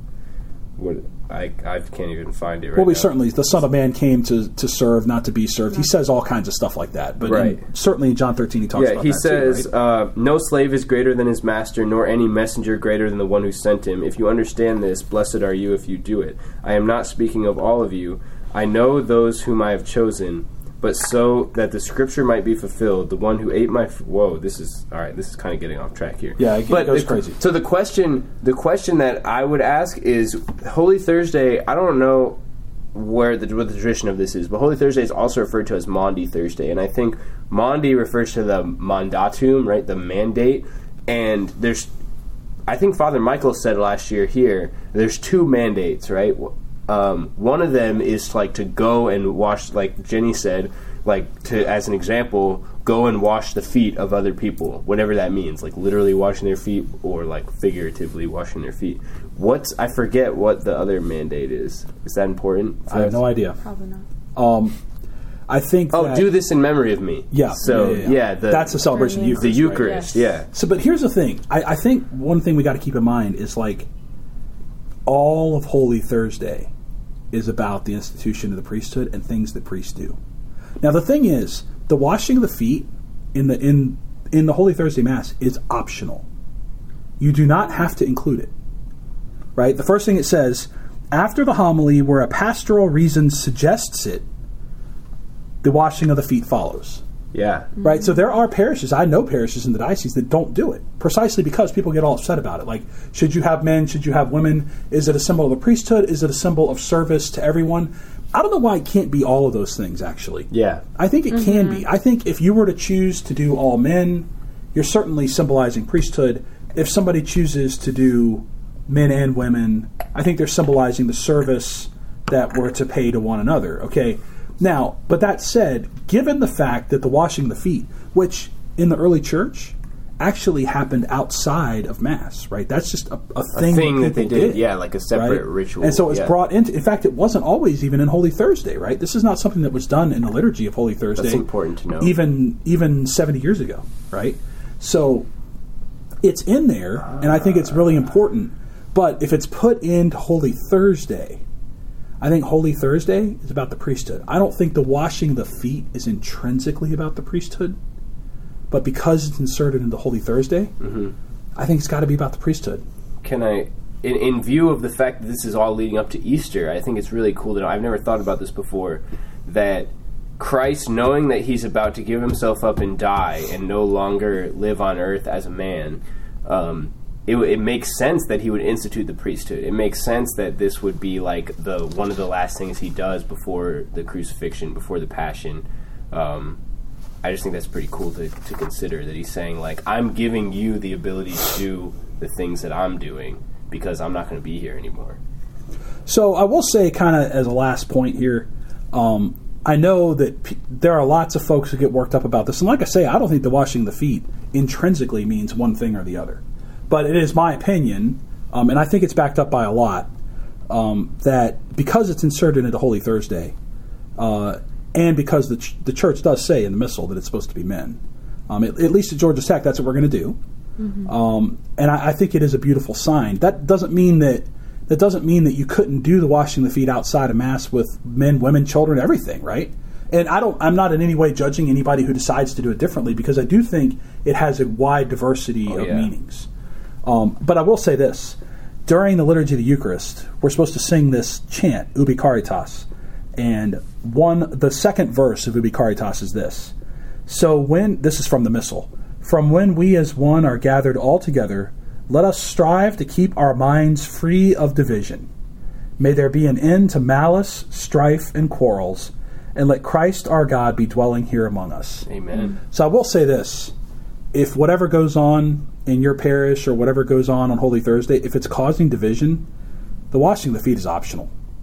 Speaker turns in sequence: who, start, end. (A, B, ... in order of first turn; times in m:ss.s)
0:00.8-0:03.1 A
0:02.7-0:09.7 B
0:07.2-0:07.6 A
0:08.7-0:32.4 A
0:26.4-0:27.4 B
0:32.9-0:41.9 A
0:42.7-1:03.2 A
1:02.9-1:03.6 B
1:03.6-1:04.0 C
1:04.3-1:04.8 B
1:05.5-1:06.3 B
1:05.9-1:10.5 A
1:07.3-1:13.9 B
1:08.9-1:10.1 C
1:15.0-1:16.7 B
1:17.3-1:20.2 B
1:20.8-1:26.2 B
1:27.2-1:28.5 B
1:29.6-1:34.2 B
1:35.6-1:37.0 B
1:37.3-1:37.7 A
1:37.8-2:21.4 B
1:50.5-1:50.8 A
1:51.3-1:51.8 C
2:13.5-2:16.3 A
2:21.2-2:22.2 A
2:22.0-2:25.3 B
2:26.2-2:31.4 B
2:32.2-2:37.8 B
2:38.7-2:40.7 B
2:40.8-2:41.1 A
2:41.6-2:42.8 B
2:43.2-3:06.6 A
3:07.2-3:15.2 A
3:16.0-3:30.1 B
3:30.7-3:33.5 B
3:34.2-3:40.4 B
3:40.8-3:41.1 C
3:41.0-3:56.5 B
3:55.7-3:56.1 A
3:57.0-4:06.7 B
4:07.2-4:15.3 B
4:16.0-4:22.1 B
4:22.1-4:22.5 A
4:22.6-4:23.7 B
4:24.3-4:29.4 B
4:30.1-4:31.3 B